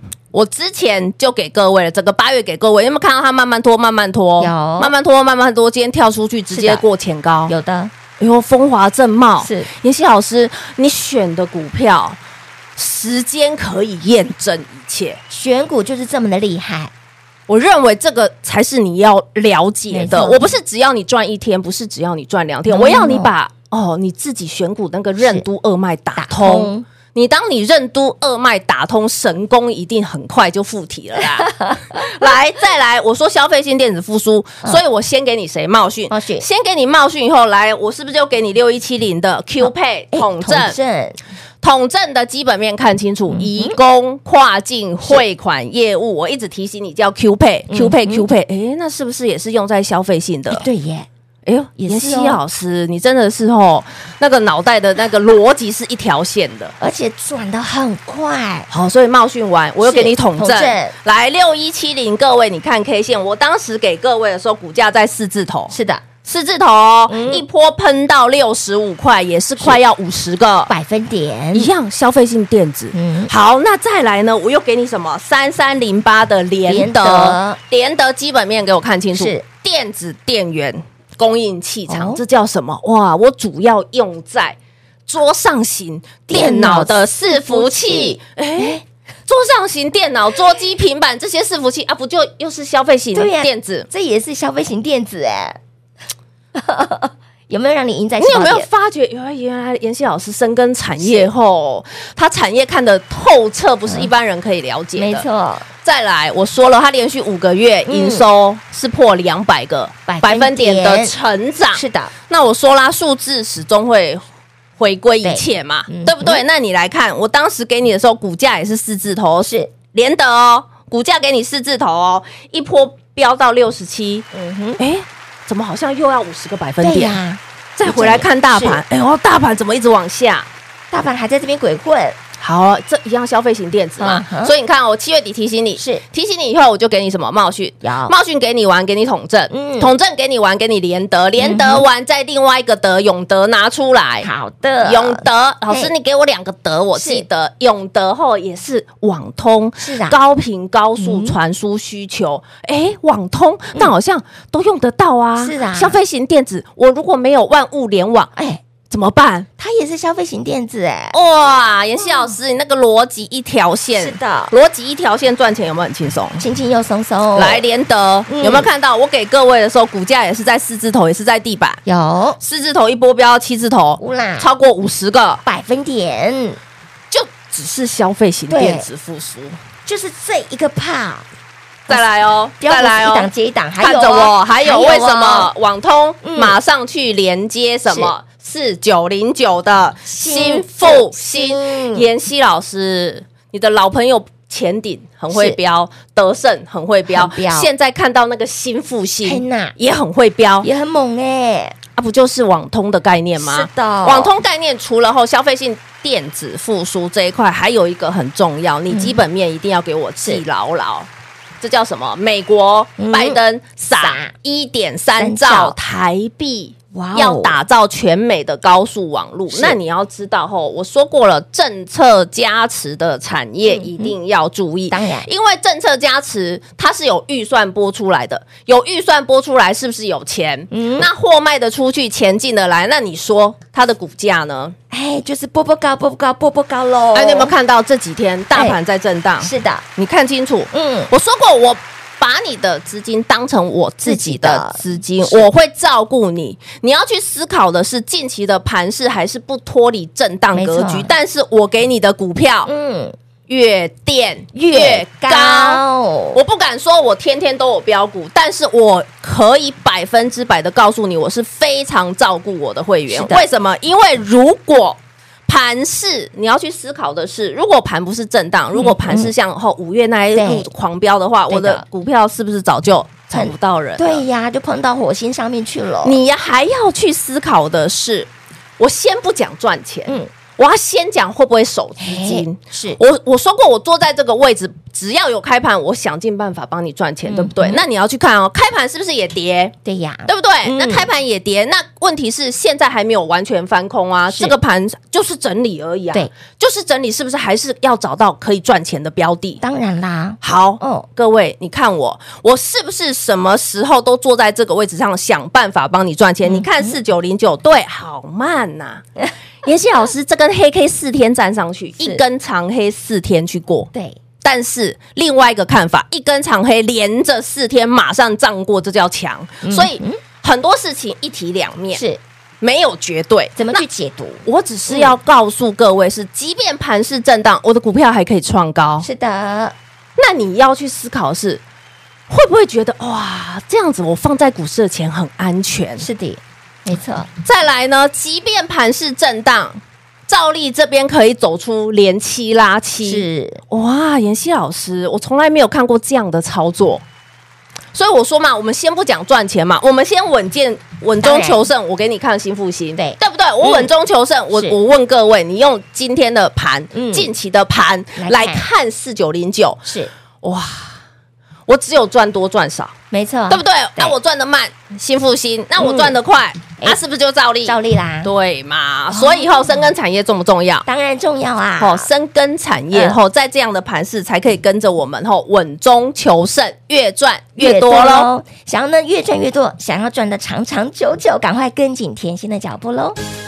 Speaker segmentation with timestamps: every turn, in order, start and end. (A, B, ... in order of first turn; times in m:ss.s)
0:00.3-0:07.5 A
0:04.4-0:04.9 B
0:06.5-0:06.8 B
0:07.5-0:07.9 B
0:08.2-0:12.2 A
0:09.4-0:09.7 B
0:12.8-0:15.2 A
0:15.3-0:16.9 B
0:17.5-0:40.8 A
0:19.9-0:20.5 B
0:22.7-0:23.3 B
0:25.2-0:25.4 B
0:26.2-0:26.8 B
0:31.4-0:32.0 B
0:36.1-0:36.4 B
0:39.6-0:41.2 B
0:41.6-0:50.6 A
0:43.3-0:43.8 B
0:47.7-0:48.2 B
0:50.5-0:51.1 B
0:51.4-0:56.8 A
0:51.8-0:52.4 B
0:56.8-0:58.7 B
0:58.7-1:10.7 A
0:59.8-1:01.0 B
1:05.7-1:06.0 B
1:07.1-1:07.4 B
1:10.7-1:11.7 B
1:11.5-1:33.9 A
1:12.9-1:13.3 B
1:16.7-1:17.6 B
1:19.1-1:19.4 B
1:21.9-1:22.2 B
1:26.3-1:28.8 B
1:33.1-1:35.6 B
1:36.5-1:38.7 B
1:38.2-1:45.2 A
1:41.0-1:41.3 B
1:45.0-1:45.7 B
1:45.8-1:54.2 A
1:47.8-1:48.2 B
1:50.1-1:51.1 B
1:51.7-1:52.1 B
1:54.8-2:04.3 A
1:55.2-1:56.4 B
1:59.4-1:59.7 B
2:04.3-2:04.8 B
2:04.8-2:07.2 A
2:06.8-2:08.8 B
2:07.8-2:10.5 A
2:10.9-2:12.2 B
2:12.4-2:24.3 A
2:14.0-2:14.5 B
2:15.8-2:16.0 B
2:17.8-2:18.1 B
2:19.5-2:19.9 B
2:21.4-2:21.8 B
2:24.2-2:25.9 B
2:24.8-2:38.3 A
2:26.9-2:27.2 B
2:29.8-2:30.2 B
2:31.0-2:31.4 B
2:35.4-2:36.0 B
2:38.4-2:38.6 B
2:38.9-2:39.5 A
2:39.6-2:41.2 B
2:41.1-2:46.4 A
2:43.9-2:44.5 B
2:46.4-2:47.6 B
2:47.3-2:51.8 A
2:48.3-2:48.7 B
2:51.8-2:52.4 B
2:52.4-2:55.4 A
2:54.0-2:54.5 B
2:55.4-2:56.6 B
2:57.1-2:59.6 A
2:58.5-2:58.9 B
2:59.8-3:01.3 B
3:01.9-3:20.7 A
3:02.6-3:05.5 B
3:06.2-3:06.6 B
3:07.9-3:08.1 B
3:10.0-3:12.1 B
3:15.3-3:15.6 B
3:17.1-3:17.7 B
3:19.2-3:19.7 B
3:20.6-3:21.8 B
3:22.0-3:31.1 A
3:23.4-3:24.3 B
3:28.9-3:29.2 B
3:31.6-3:54.7 A
3:33.0-3:33.4 B
3:34.0-3:34.3 B
3:35.2-3:35.7 B
3:36.9-3:37.6 B
3:39.5-3:39.8 B
3:43.7-3:44.1 B
3:44.9-3:45.3 B
3:50.7-3:51.1 B
3:54.9-3:57.5 B
3:57.1-4:12.7 A
3:59.4-3:59.8 B
4:00.7-4:01.1 B
4:04.0-4:05.5 B
4:10.5-4:11.1 B
4:12.6-4:13.2 B
4:13.5-4:15.8 A
4:14.5-4:16.4 B
4:16.3-4:34.2 A
4:23.1-4:23.4 B
4:28.7-4:29.3 B
4:30.3-4:30.7 B
4:31.5-4:31.8 B
4:33.3-4:36.2 B
4:36.0-4:49.8 A
4:42.0-4:43.0 B
4:47.3-4:47.8 B
4:49.8-4:51.1 B
4:50.3-4:59.6 A
4:59.6-5:01.1 B
5:00.4-5:09.0 A
5:06.4-5:06.9 B
5:09.6-5:13.9 A
5:13.9-5:14.2 B
5:14.4-5:22.0 A
5:19.6-5:20.2 B
5:21.9-5:22.2 B
5:22.6-5:23.8 A
5:23.6-5:25.1 B
5:24.4-5:29.0 A
5:29.0-5:29.8 B
5:30.2-5:31.6 A
5:32.3-5:36.0 A
5:36.0-5:37.3 B
5:37.4-5:47.0 A
5:43.0-5:43.6 B
5:47.9-5:59.8 A
5:51.2-5:51.6 B
5:53.0-5:53.9 B
5:56.9-5:57.3 B
5:58.2-5:58.6 B
5:59.8-6:00.1 B
6:00.4-6:01.0 A
6:01.7-6:03.0 A
6:03.1-6:04.1 B
6:03.5-6:10.8 A
6:05.8-6:06.1 B
6:07.6-6:08.3 B
6:09.1-6:09.9 B
6:10.8-6:12.1 B
6:11.8-6:18.3 A
6:17.6-6:23.2 B